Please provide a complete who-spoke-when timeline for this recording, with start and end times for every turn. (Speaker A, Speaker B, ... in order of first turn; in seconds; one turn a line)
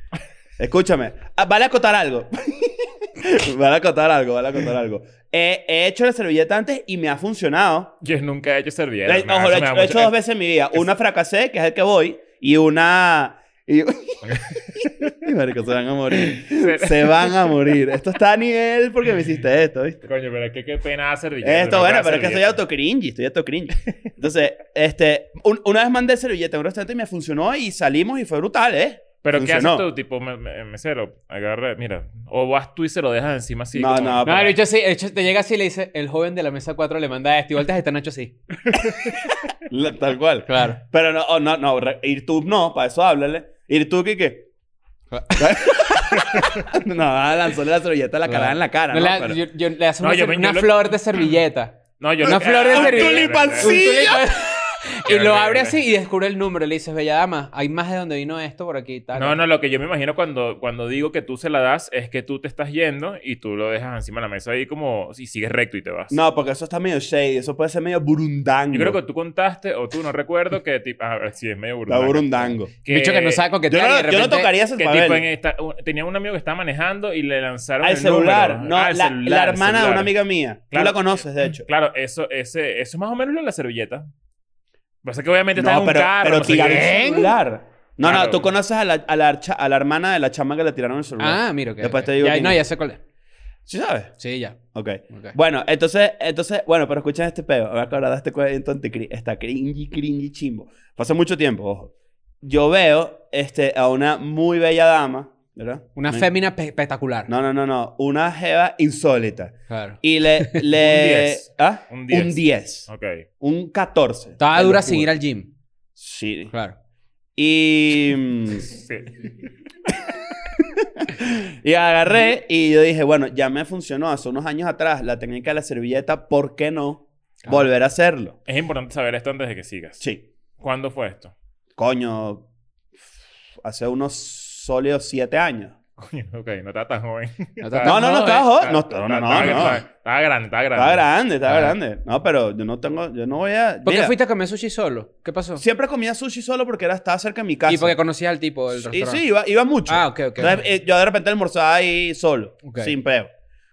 Speaker A: 0.6-8.0
Speaker B: 8.0-10.2
Speaker A: 9.1-20.1
Speaker B: 16.3-17.5
Speaker B: 20.1-22.6
Speaker A: 21.4-29.9
Speaker B: 29.2-34.3
Speaker A: 33.7-34.5
Speaker C: 34.2-38.4
Speaker A: 39.7-44.5
Speaker C: 40.5-40.8
Speaker C: 45.1-46.0
Speaker A: 45.4-49.4
Speaker B: 46.2-46.6
Speaker C: 48.3-59.4
Speaker B: 50.0-51.3
Speaker B: 52.0-53.7
Speaker A: 52.2-54.4
Speaker B: 55.0-55.8
Speaker B: 59.2-66.2
Speaker A: 66.1-69.0
Speaker B: 68.7-73.5
Speaker A: 71.9-72.7
Speaker C: 72.9-74.5
Speaker A: 73.7-75.2
Speaker B: 74.8-80.1
Speaker A: 77.8-81.7
Speaker B: 80.7-84.1
Speaker B: 85.0-87.0
Speaker A: 85.6-92.6
Speaker C: 86.6-87.3
Speaker B: 88.0-88.5
Speaker C: 91.2-93.0
Speaker A: 93.7-94.2
Speaker C: 94.2-94.6
Speaker A: 94.7-106.3
Speaker C: 95.1-95.3
Speaker C: 106.0-107.3
Speaker A: 107.3-112.9
Speaker C: 109.7-110.6
Speaker B: 110.8-113.2
Speaker A: 113.4-115.1
Speaker C: 114.4-115.5
Speaker A: 116.0-116.5
Speaker C: 116.5-116.8
Speaker A: 117.4-118.7
Speaker B: 118.7-119.3
Speaker A: 120.6-128.4
Speaker B: 128.5-130.0
Speaker B: 130.6-131.3
Speaker A: 131.8-132.5
Speaker A: 133.6-135.8
Speaker B: 136.0-141.0
Speaker C: 137.6-138.5
Speaker A: 137.8-139.8
Speaker A: 140.8-144.2
Speaker C: 141.5-141.8
Speaker C: 143.8-145.6
Speaker A: 145.6-148.0
Speaker C: 147.7-149.2
Speaker A: 148.8-153.3
Speaker C: 149.9-150.6
Speaker C: 152.7-152.9